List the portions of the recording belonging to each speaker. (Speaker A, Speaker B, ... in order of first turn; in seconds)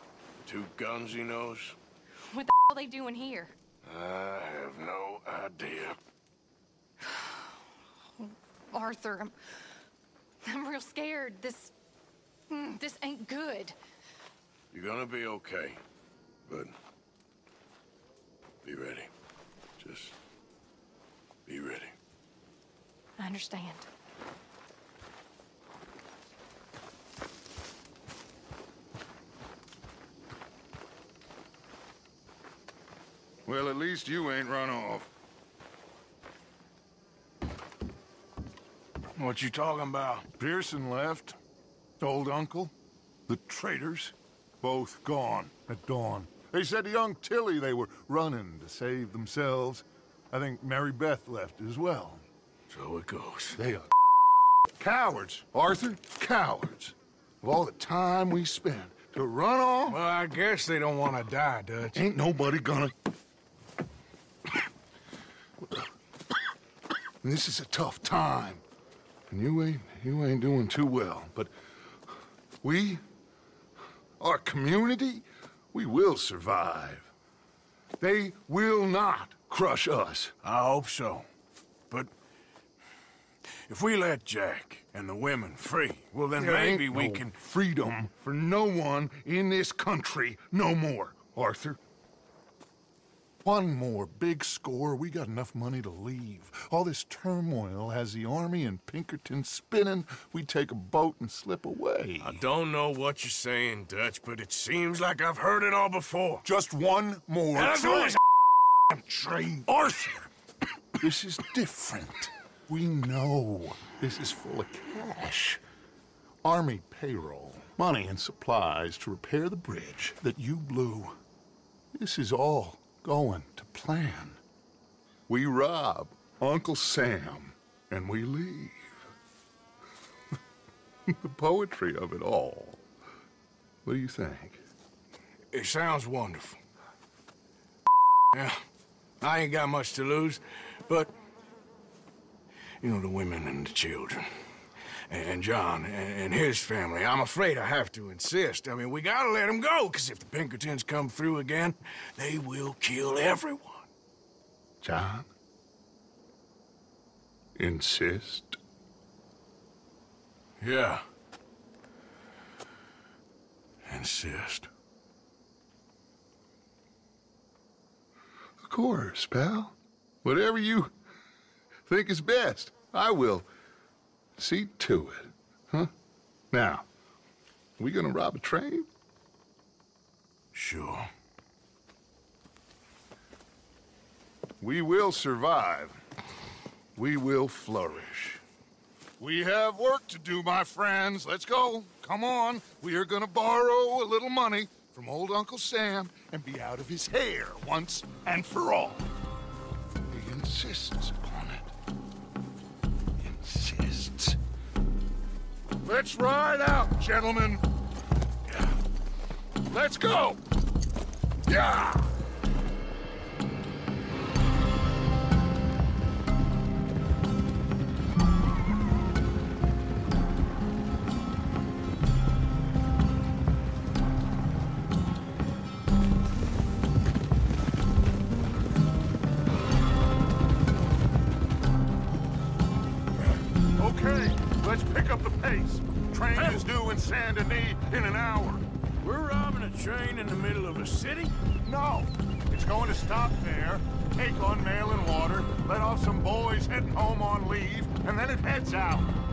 Speaker A: 0.4-1.8, 3.9-6.0, 14.7-15.8, 16.5-16.7, 18.6-19.1, 19.8-20.1, 21.5-21.9, 39.2-40.3, 52.7-53.6, 59.9-62.0, 80.4-81.3, 83.7-87.3, 102.2-106.5, 107.5-108.2, 108.9-109.7, 135.5-136.6, 138.3-138.6, 139.2-141.1, 142.8-144.3, 145.1-153.9, 160.6-161.0, 163.8-164.7, 180.5-181.1, 236.3-236.7, 239.0-241.3
Speaker B: 2.3-3.5, 7.0-7.6, 8.2-9.3, 10.4-11.7, 12.5-13.8, 23.2-23.9
Speaker C: 33.5-35.1, 40.4-41.4, 42.0-42.7, 43.3-52.2, 53.5-53.9, 54.8-60.0, 61.9-62.9, 67.2-68.6, 69.3-71.5, 72.6-73.0, 74.2-77.1, 78.0-80.3, 86.4-91.8, 93.4-102.4, 106.4-108.2, 109.7-110.3, 111.0-115.6, 116.4-121.2, 122.0-124.4, 125.3-128.9, 131.1-132.8, 133.8-134.6, 154.8-155.3, 157.6-158.6, 168.6-170.9, 171.9-173.5, 174.4-175.9, 176.5-176.8, 177.8-178.9, 184.6-186.0, 187.0-188.4, 189.2-199.1, 200.1-201.7, 203.2-204.4, 205.8-207.6, 209.7-210.4, 211.5-212.1, 233.8-238.7, 241.6-249.1